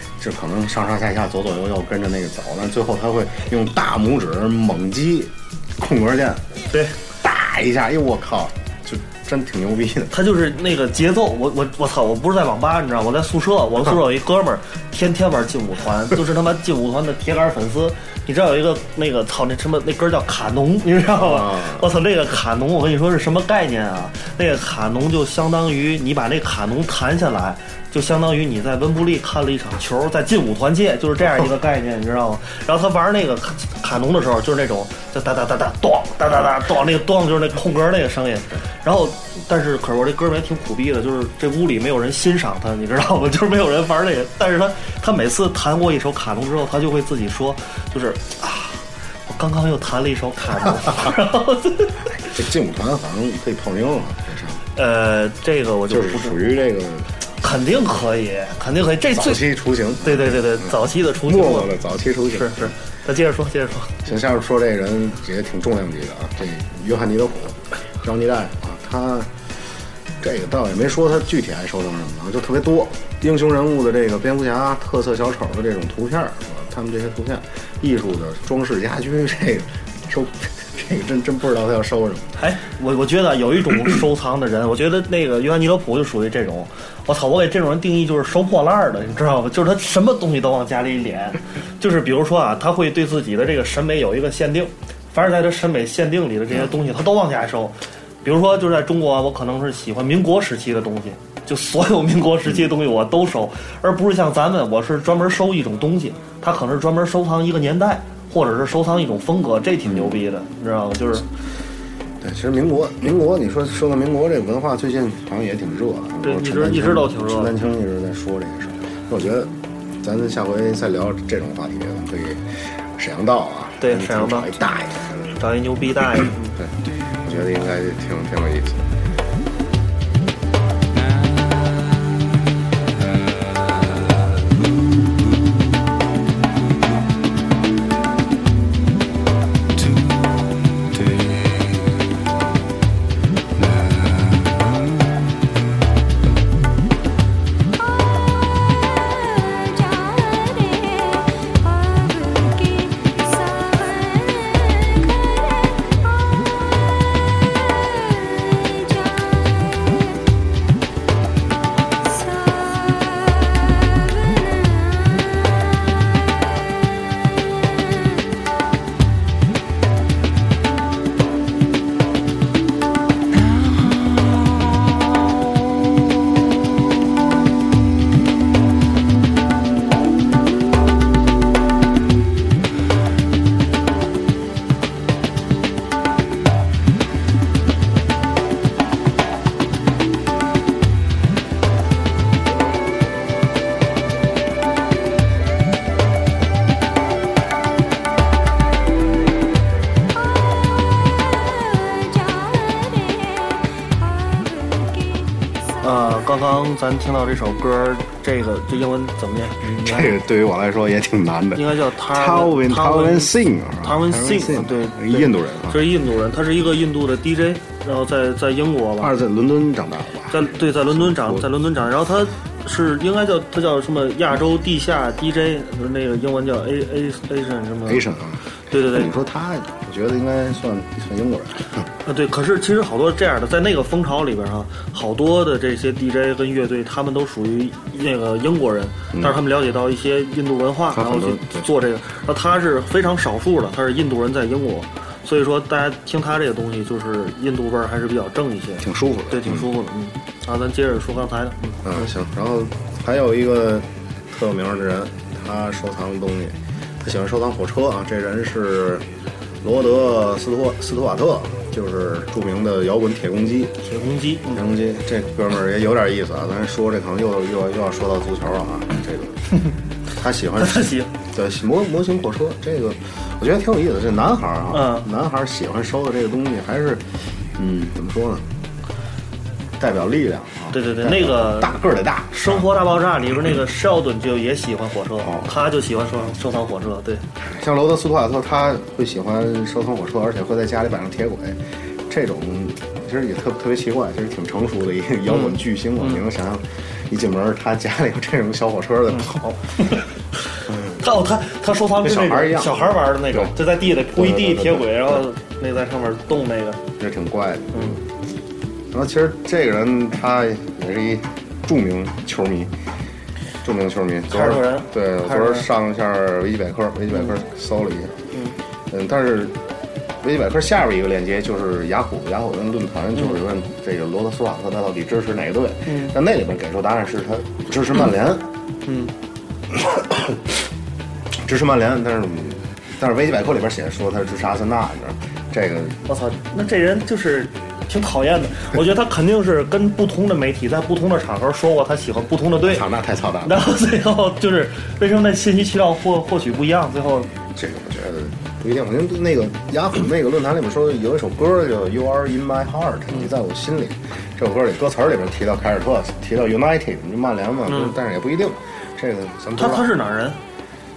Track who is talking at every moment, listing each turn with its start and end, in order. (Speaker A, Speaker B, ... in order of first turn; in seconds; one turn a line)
Speaker A: 0.2-6.5
Speaker B: 6.7-7.0
Speaker A: 7.2-10.1
Speaker B: 10.1-52.1
Speaker A: 21.2-21.9
Speaker A: 52.3-54.6
Speaker B: 54.7-56.4
Speaker A: 55.9-57.1
Speaker B: 57.4-59.5
Speaker A: 59.1-62.7
Speaker B: 60.0-61.7
Speaker B: 62.3-64.1
Speaker A: 64.0-69.3
Speaker A: 70.2-82.4
Speaker B: 82.4-111.2
Speaker A: 109.8-110.2
Speaker A: 112.2-125.4
Speaker B: 116.2-117.5
Speaker B: 123.8-124.6
Speaker B: 125.3-126.5
Speaker A: 126.6-128.8
Speaker B: 205.8-210.1
Speaker A: 209.6-215.8
Speaker B: 211.5-219.1
Speaker A: 219.0-221.5
Speaker B: 220.3-228.0
Speaker A: 227.8-231.8
Speaker B: 228.7-229.1
Speaker B: 232.0-252.1
Speaker A: 239.1-239.4
Speaker A: 240.9-241.7
Speaker A: 248.8-249.7
Speaker A: 251.8-259.1
Speaker A: 259.6-263.9
Speaker B: 263.8-264.6
Speaker A: 264.5-269.6
Speaker A: 270.2-278.4
Speaker B: 270.6-271.1
Speaker B: 274.7-275.1
Speaker A: 279.8-282.7
Speaker B: 280.7-281.7
Speaker B: 282.3-287.2
Speaker A: 285.2-285.5
Speaker A: 287.4-299.9
Speaker B: 295.3-296.2
Speaker A: 300.7-301.0
Speaker B: 301.0-306.8
Speaker A: 301.9-305.2
Speaker A: 307.0-308.0
Speaker B: 307.7-308.0
Speaker A: 308.9-312.7
Speaker A: 313.6-318.3
Speaker B: 314.3-315.7
Speaker A: 318.9-319.6
Speaker A: 320.2-328.5
Speaker B: 325.9-326.1
Speaker B: 328.9-329.1
Speaker A: 329.7-330.6
Speaker A: 331.3-336.0
Speaker B: 336.1-342.9
Speaker A: 342.6-343.6
Speaker B: 343.4-347.3
Speaker A: 347.5-359.9
Speaker B: 357.7-357.9
Speaker B: 359.6-360.4